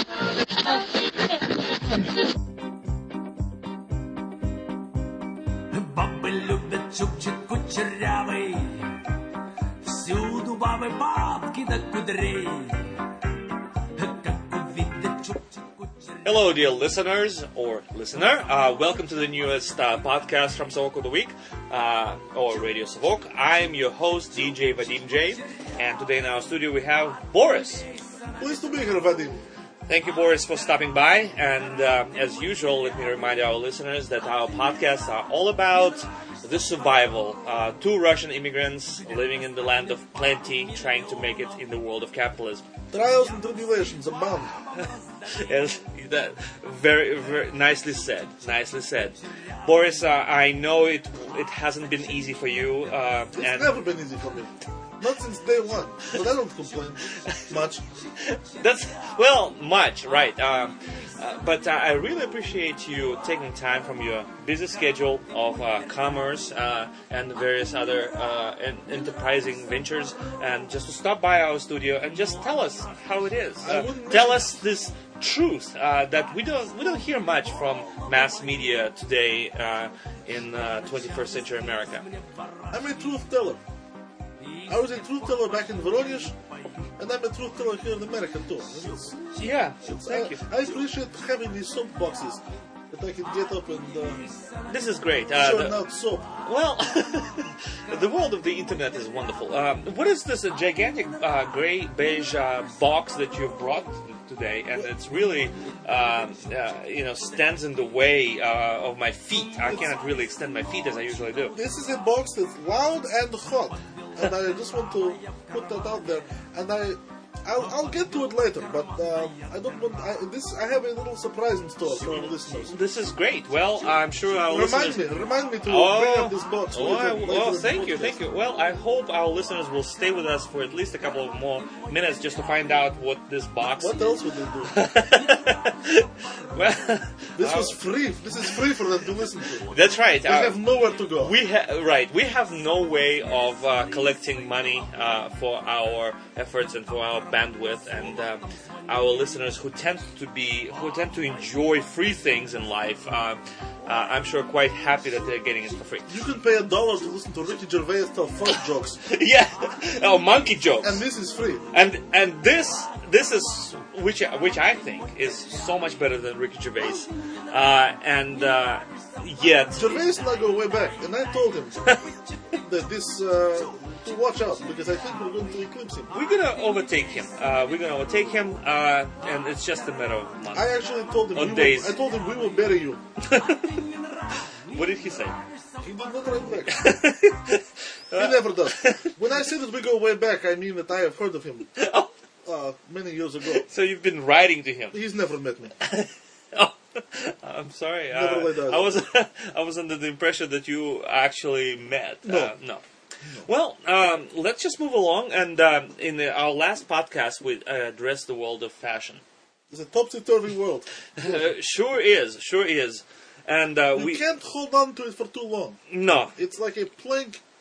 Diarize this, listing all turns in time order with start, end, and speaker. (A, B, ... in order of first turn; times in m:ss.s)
0:05.7-0:09.1 A
0:09.8-0:13.1 A
0:14.0-0:16.4 A
0:16.2-0:27.9 B
0:24.3-0:29.2 A
0:28.4-0:29.4 C
0:29.9-0:42.6 B
0:30.1-0:30.8 A
0:31.4-0:33.3 A
0:34.2-0:37.4 A
0:39.0-0:41.9 A
0:42.9-0:44.6 C
0:43.0-0:45.8 A
0:44.7-0:53.8 B
0:47.1-0:50.2 A
0:51.2-0:53.3 A
0:53.4-0:57.8 C
0:56.1-1:02.2 A
0:57.1-0:57.5 B
0:58.2-1:22.1 B
1:02.9-1:06.5 A
1:07.7-1:10.6 A
1:12.0-1:14.6 A
1:13.6-1:14.5 C
1:16.3-1:18.8 A
1:20.4-1:23.2 A
1:22.7-1:23.6 C
1:24.4-1:26.9 A
1:24.7-1:26.4 C
1:27.0-1:29.2 C
1:28.5-1:32.3 A
1:29.4-1:30.4 B
1:30.0-1:34.2 C
1:33.2-1:35.2 A
1:34.7-1:35.9 B
1:35.4-1:36.3 C
1:36.2-1:39.7 A
1:36.4-1:51.6 B
1:40.5-1:43.9 A
1:45.1-1:48.0 A
1:49.3-1:52.4 A
1:51.5-2:02.8 C
1:53.7-1:56.5 A
1:57.6-2:00.2 A
2:01.8-2:05.7 A
2:02.7-2:14.1 B
2:04.5-2:08.2 C
2:10.7-2:12.9 A
2:13.8-2:14.8 C
2:14.6-2:18.0 B
2:14.8-2:16.8 A
2:17.4-2:21.4 C
2:19.0-2:19.8 A
2:19.6-2:20.6 B
2:21.1-2:36.2 B
2:22.9-2:25.3 A
2:26.9-2:29.6 A
2:30.7-2:33.0 A
2:33.8-2:35.9 A
2:36.1-2:39.0 C
2:38.5-2:41.1 B
2:39.0-3:06.8 A
2:40.8-2:41.6 C
2:41.7-2:50.2 B
2:49.8-2:51.9 C
2:52.6-2:56.1 C
2:56.1-3:00.8 B
3:00.5-3:03.0 C
3:01.3-3:02.0 B
3:03.2-3:03.7 B
3:04.6-3:05.4 B
3:05.8-3:06.9 C
3:06.7-3:09.2 B
3:08.1-3:11.7 C
3:11.8-3:12.1 B
3:12.4-3:13.7 C
3:13.6-3:15.0 B
3:14.9-3:15.7 C
3:15.8-3:22.8 B
3:18.1-3:19.0 C
3:22.2-3:22.5 C
3:23.4-3:29.2 B
3:29.7-3:31.5 C
3:31.2-3:34.2 B
3:33.9-3:37.4 C
3:35.9-3:36.4 B